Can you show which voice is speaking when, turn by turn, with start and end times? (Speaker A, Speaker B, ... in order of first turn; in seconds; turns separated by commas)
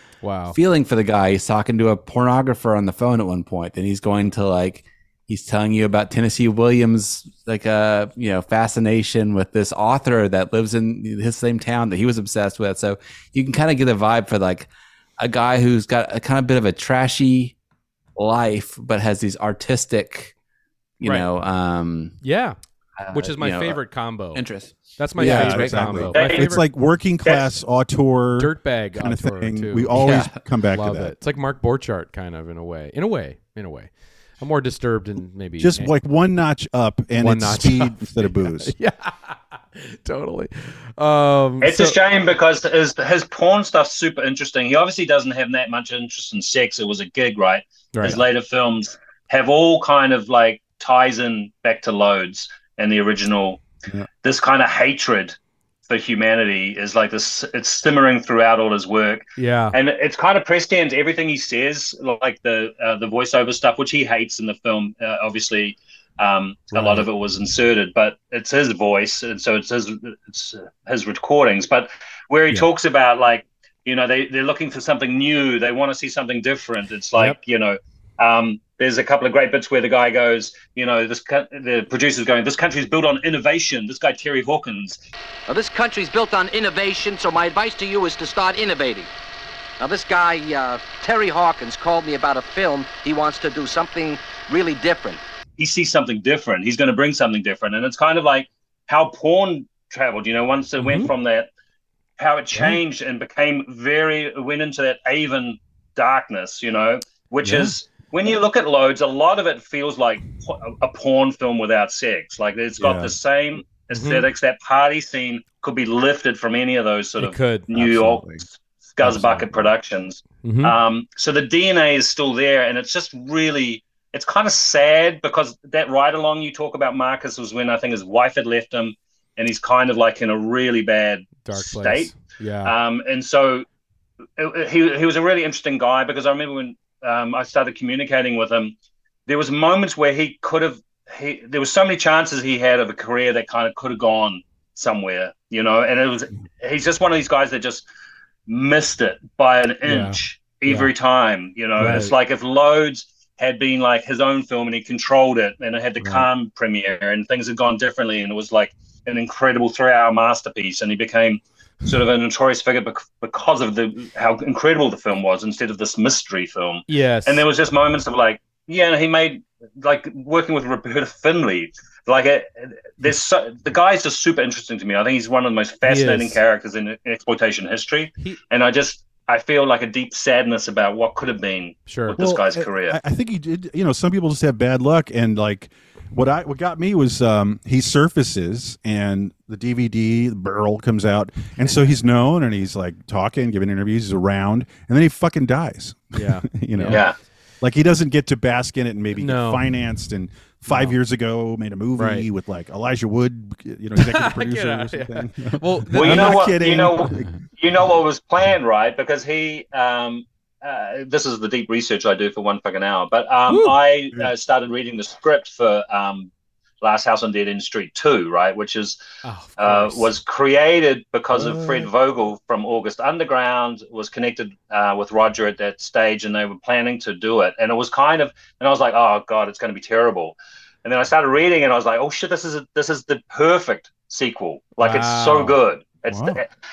Speaker A: 0.2-0.6, Speaker B: 0.5-17.6, Speaker B: 18.2-20.3, Speaker B: 21.0-22.2, Speaker A: 21.0-21.3, Speaker A: 22.2-22.6, Speaker B: 23.0-26.1, Speaker A: 23.1-24.4, Speaker A: 25.0-26.6, Speaker C: 25.2-31.1, Speaker D: 26.1-26.5, Speaker D: 27.2-27.5, Speaker A: 28.4-29.9, Speaker B: 29.9-30.4, Speaker A: 30.7-35.9, Speaker C: 35.6-38.7, Speaker A: 37.2-42.0, Speaker D: 41.6-53.6, Speaker A: 47.9-48.2, Speaker D: 54.2-55.4, Speaker D: 55.9-85.0, Speaker A: 59.4-59.8, Speaker A: 66.7-67.1, Speaker E: 85.5-89.1, Speaker E: 89.8-95.2, Speaker D: 95.6-101.5, Speaker A: 100.8-101.1, Speaker D: 102.2-133.7, Speaker C: 107.4-107.8, Speaker C: 112.8-113.1, Speaker A: 113.9-114.3, Speaker A: 117.2-117.7, Speaker C: 117.7-118.5, Speaker C: 119.0-119.7, Speaker A: 120.4-120.8, Speaker A: 131.4-132.7, Speaker D: 134.4-138.7, Speaker D: 139.3-147.9, Speaker D: 148.5-183.0, Speaker A: 149.8-150.9, Speaker A: 151.8-152.1, Speaker C: 156.0-156.3, Speaker A: 166.9-167.4, Speaker A: 175.9-176.4, Speaker A: 181.9-182.2, Speaker C: 182.2-197.1, Speaker A: 196.2-197.0, Speaker D: 196.9-197.2, Speaker C: 197.6-207.3, Speaker A: 199.2-199.7, Speaker A: 200.7-201.0, Speaker A: 202.0-202.3, Speaker A: 204.0-206.5, Speaker D: 205.9-216.3, Speaker A: 213.5-213.7, Speaker D: 216.8-219.0, Speaker A: 219.2-220.1, Speaker D: 219.6-236.5, Speaker C: 221.3-221.9, Speaker A: 234.8-235.6, Speaker C: 236.1-236.4